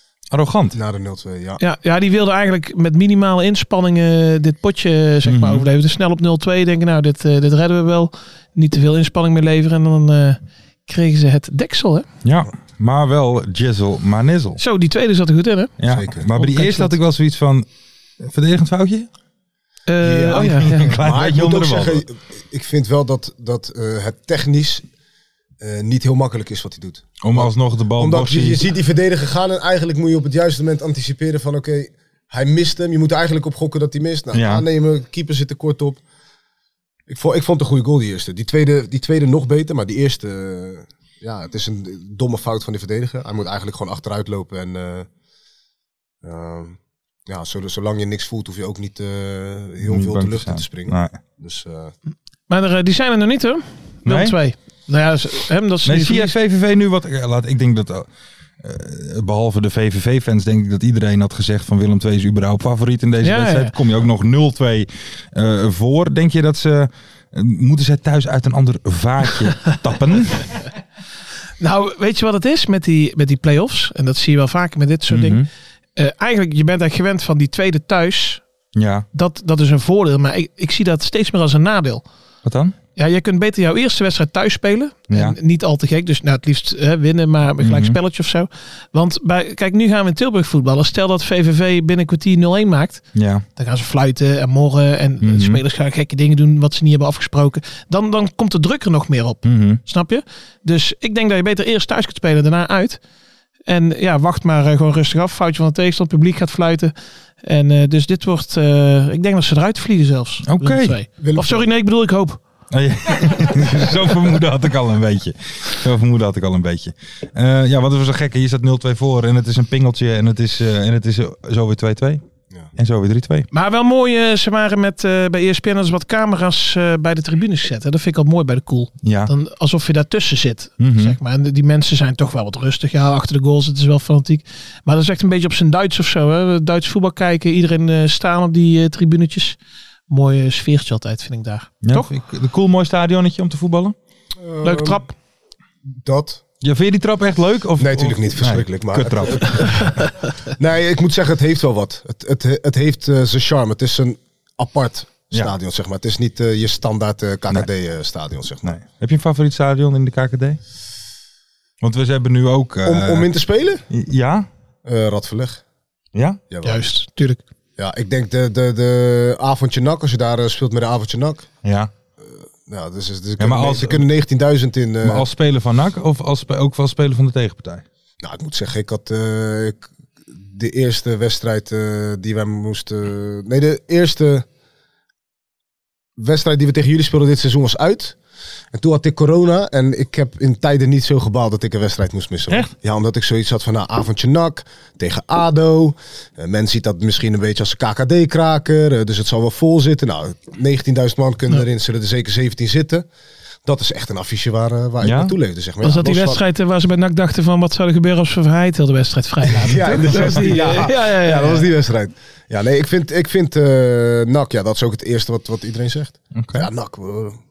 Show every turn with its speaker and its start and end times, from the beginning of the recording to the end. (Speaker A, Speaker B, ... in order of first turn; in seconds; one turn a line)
Speaker A: 0.3-0.8
Speaker B: 0.7-1.6
Speaker C: 1.6-12.1
Speaker A: 5.2-5.6
Speaker A: 12.2-14.6
Speaker C: 14.6-15.7
Speaker A: 15.8-17.6
Speaker B: 15.9-16.3
Speaker C: 16.3-16.9
Speaker A: 18.2-19.1
Speaker C: 19.9-20.9
Speaker B: 20.0-24.8
Speaker A: 20.3-22.0
Speaker B: 25.6-36.0
Speaker A: 27.2-28.6
Speaker A: 34.3-34.6
Speaker B: 37.1-45.1
Speaker B: 46.2-51.9
Speaker A: 49.8-51.2
Speaker C: 52.5-56.3
Speaker A: 54.0-54.4
Speaker A: 55.8-58.1
Speaker A: 58.6-70.5
Speaker C: 63.2-63.7
Speaker C: 71.6-78.4
Speaker A: 75.1-75.5
Speaker A: 78.7-79.0
Speaker C: 79.1-82.0
Speaker A: 82.4-82.7
Speaker C: 83.0-93.0
Speaker A: 85.1-85.3
Speaker A: 87.6-88.0
Speaker A: 93.1-93.4
Speaker C: 93.5-103.0
Speaker A: 95.2-95.6
Speaker A: 99.4-99.8
Speaker C: 103.7-112.4
Speaker A: 110.4-110.9
Speaker B: 111.2-111.7
Speaker A: 112.7-122.2
Speaker A: 122.8-123.5
Speaker C: 123.5-139.6
Speaker A: 129.0-129.3
Speaker A: 130.8-131.2
Speaker C: 140.1-142.1
Speaker A: 141.8-143.9
Speaker B: 144.4-145.0
Speaker C: 144.6-145.1
Speaker B: 145.9-146.4
Speaker A: 146.6-149.9
Speaker B: 147.8-158.7
Speaker A: 158.6-160.6
Speaker A: 161.8-163.3
Speaker B: 162.8-163.8
Speaker A: 163.9-164.5
Speaker B: 164.8-165.6
Speaker A: 166.1-166.4
Speaker B: 166.5-166.8
Speaker C: 166.6-167.4
Speaker B: 167.8-171.5
Speaker A: 171.6-171.9
Speaker B: 172.2-175.3
Speaker A: 173.4-174.0
Speaker A: 175.0-177.8
Speaker B: 178.2-184.4
Speaker B: 186.2-188.2
Speaker B: 188.7-203.1
Speaker B: 203.6-206.4
Speaker A: 205.0-205.3
Speaker C: 205.8-211.7
Speaker B: 209.6-217.4
Speaker A: 216.3-216.7